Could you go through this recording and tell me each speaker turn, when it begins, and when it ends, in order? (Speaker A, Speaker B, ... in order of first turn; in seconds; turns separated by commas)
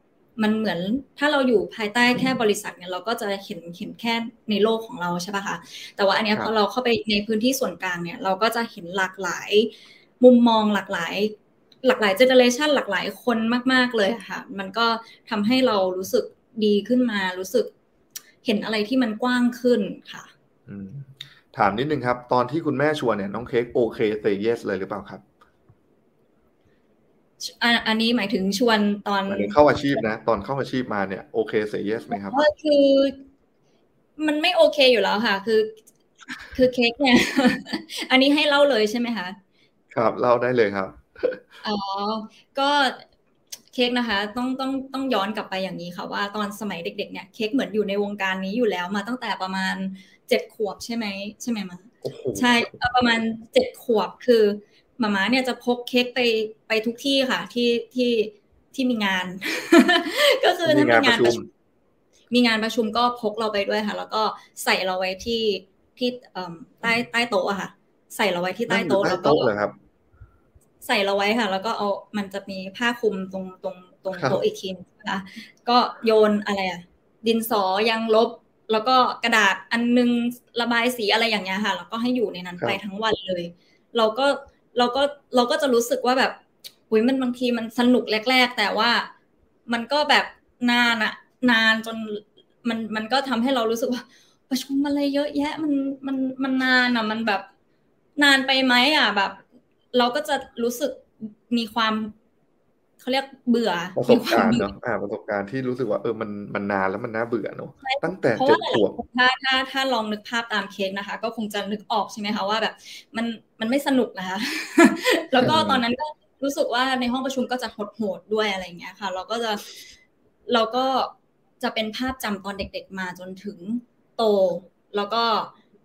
Speaker A: 0.4-17.7, Speaker A: 18.4-20.3, Speaker B: 20.7-25.2, Speaker A: 27.4-30.0, Speaker B: 29.3-32.4, Speaker A: 32.1-33.2, Speaker A: 34.2-35.8, Speaker A: 36.5-39.4, Speaker B: 39.9-41.4, Speaker A: 41.6-43.0, Speaker A: 43.7-61.4, Speaker B: 52.0-52.7, Speaker B: 60.6-61.5, Speaker A: 62.3-69.5, Speaker B: 68.7-69.8, Speaker A: 70.8-89.1, Speaker B: 74.2-74.4, Speaker A: 89.7-97.5, Speaker A: 98.2-102.1, Speaker A: 103.0-104.7, Speaker B: 104.0-109.0, Speaker A: 107.8-119.8, Speaker B: 115.4-115.8, Speaker A: 120.5-125.5